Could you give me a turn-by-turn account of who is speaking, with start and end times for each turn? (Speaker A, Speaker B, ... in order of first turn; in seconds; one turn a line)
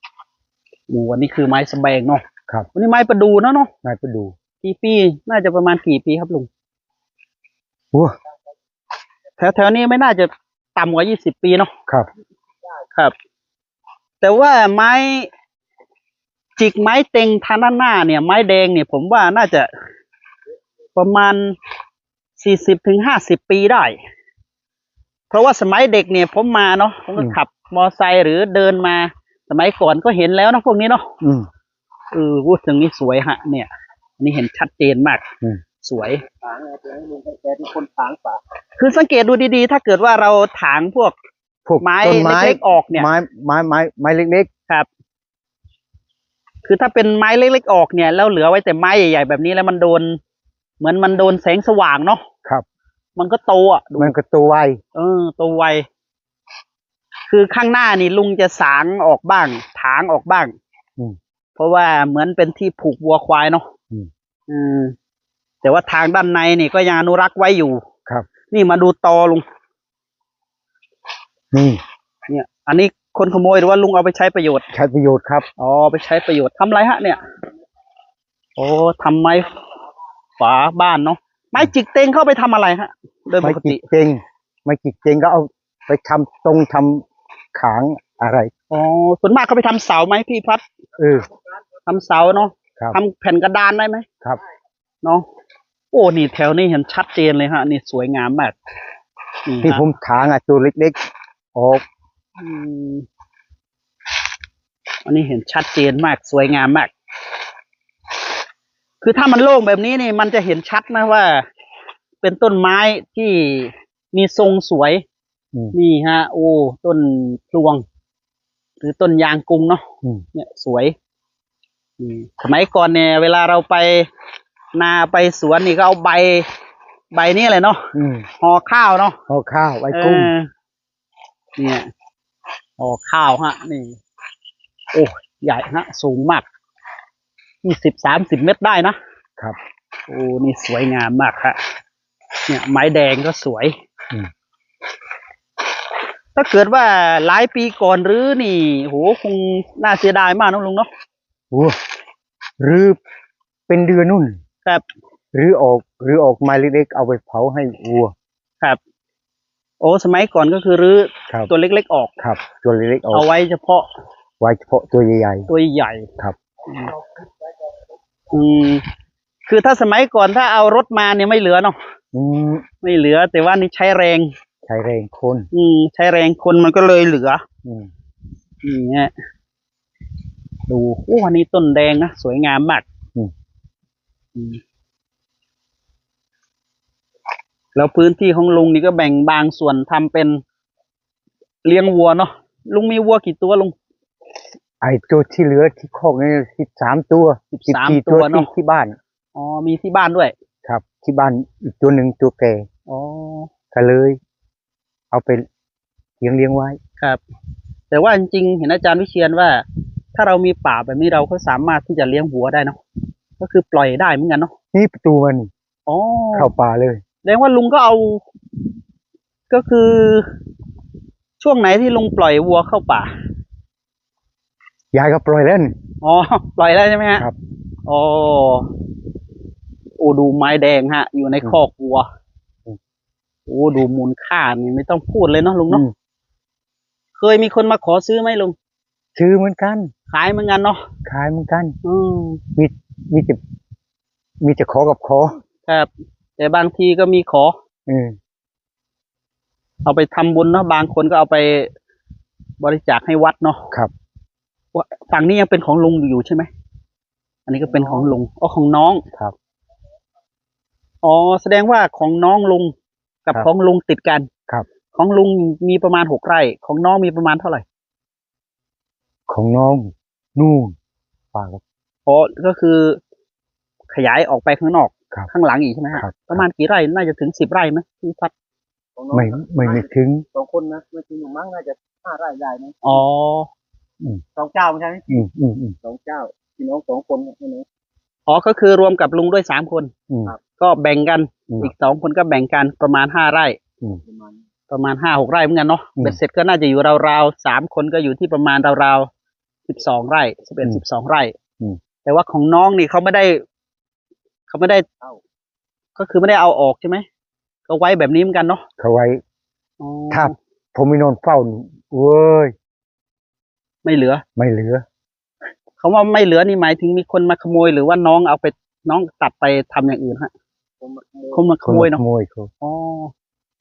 Speaker A: 0.9-2.2
Speaker A: 2.8-3.7
Speaker B: 3.8-4.3
Speaker A: 4.6-6.5
Speaker A: 9.4-11.7
Speaker A: 14.2-15.3
Speaker A: 16.6-19.7
Speaker A: 21.0-21.6
Speaker A: 22.4-24.0
Speaker A: 25.3-31.1
Speaker B: 31.2-31.5
Speaker A: 32.1-33.7
Speaker A: 34.2-35.2
Speaker A: 35.8-36.2
Speaker C: 36.4-38.4
Speaker A: 38.8-41.1
Speaker B: 41.7-44.5
Speaker A: 41.8-43.1
Speaker A: 46.6-50.2
Speaker A: 50.8-52.2
Speaker A: 53.2-54.1
Speaker B: 54.0-54.8
Speaker A: 55.0-55.9
Speaker A: 57.3-60.5
Speaker A: 61.6-63.7
Speaker A: 64.5-65.0
Speaker A: 65.6-67.8
Speaker A: 68.5-69.5
Speaker B: 71.5-71.8
Speaker A: 72.3-74.7
Speaker B: 74.7-75.5
Speaker A: 75.6-77.2
Speaker A: 78.6-79.5
Speaker A: 80.4-83.8
Speaker B: 83.4-88.5
Speaker A: 88.7-90.6
Speaker B: 91.0-91.3
Speaker A: 91.9-94.1
Speaker A: 95.9-98.5
Speaker A: 99.5-99.9
Speaker B: 99.6-101.0
Speaker B: 101.5-101.8
Speaker A: 102.4-103.1
Speaker A: 105.0-106.9
Speaker A: 109.0-111.5
Speaker A: 112.2-115.0
Speaker A: 115.7-117.8
Speaker A: 118.8-121.0
Speaker A: 122.0-124.1
Speaker A: 124.8-126.5
Speaker A: 127.1-129.2
Speaker B: 127.9-128.3
Speaker B: 129.3-130.3
Speaker A: 129.9-130.5
Speaker A: 131.6-131.9
Speaker A: 132.8-134.0
Speaker A: 134.9-136.4
Speaker A: 137.6-139.0
Speaker A: 140.1-141.6
Speaker A: 142.5-143.8
Speaker A: 146.4-150.9
Speaker B: 151.5-151.8
Speaker B: 152.6-153.0
Speaker B: 153.7-154.4
Speaker B: 155.3-158.1
Speaker A: 159.8-162.1
Speaker B: 162.2-163.3
Speaker A: 163.1-163.9
Speaker B: 164.4-165.5
Speaker A: 165.5-166.1
Speaker A: 166.7-166.9
Speaker A: 168.3-168.8
Speaker A: 169.5-171.8
Speaker B: 172.1-172.7
Speaker A: 172.8-174.3
Speaker B: 174.7-175.5
Speaker A: 175.5-177.4
Speaker B: 177.6-177.9
Speaker A: 178.6-179.1
Speaker A: 180.7-182.8
Speaker A: 187.8-190.4
Speaker A: 191.6-193.8
Speaker B: 194.8-199.0
Speaker A: 197.5-198.5
Speaker A: 199.3-200.3
Speaker B: 200.7-202.7
Speaker A: 202.9-203.5
Speaker B: 203.7-204.2
Speaker B: 205.1-205.5
Speaker B: 206.2-206.8
Speaker A: 207.9-209.6
Speaker A: 210.2-212.8
Speaker A: 213.4-214.5
Speaker B: 214.7-215.5
Speaker A: 215.9-216.5
Speaker B: 216.3-217.0
Speaker A: 217.2-218.2
Speaker A: 219.5-220.3
Speaker A: 221.4-223.1
Speaker B: 224.9-225.8
Speaker A: 226.0-227.3
Speaker A: 227.8-228.7
Speaker A: 230.0-232.1
Speaker A: 233.5-235.8
Speaker A: 237.2-238.6
Speaker B: 239.2-239.9
Speaker A: 240.1-240.8
Speaker B: 241.1-241.8
Speaker A: 241.8-242.4
Speaker B: 242.6-243.4
Speaker B: 244.4-245.3
Speaker A: 245.7-247.6
Speaker B: 247.9-248.2
Speaker A: 249.8-251.7
Speaker A: 252.6-253.7
Speaker A: 254.7-256.5
Speaker A: 257.5-259.0
Speaker C: 257.7-258.1
Speaker A: 261.0-262.7
Speaker A: 263.3-264.3
Speaker A: 264.9-267.6
Speaker B: 269.3-270.8
Speaker B: 271.3-271.6
Speaker A: 272.1-273.0
Speaker A: 273.9-278.3
Speaker B: 276.0-276.4
Speaker C: 279.0-283.0
Speaker B: 279.1-280.2
Speaker A: 282.8-283.5
Speaker C: 284.4-285.2
Speaker B: 285.1-285.8
Speaker C: 285.8-287.6
Speaker A: 288.3-289.9
Speaker B: 290.1-290.3
Speaker A: 290.6-293.6
Speaker C: 294.0-294.4
Speaker A: 294.7-299.1
Speaker A: 299.7-301.3
Speaker A: 302.1-303.4
Speaker A: 304.5-304.9
Speaker A: 306.0-307.1
Speaker A: 307.7-308.6
Speaker B: 308.8-309.2
Speaker A: 309.8-310.4
Speaker B: 310.1-312.6
Speaker A: 313.9-314.2
Speaker B: 314.4-314.9
Speaker A: 315.8-320.3
Speaker C: 320.8-321.5
Speaker A: 321.3-322.0
Speaker B: 321.6-322.5
Speaker A: 322.6-323.1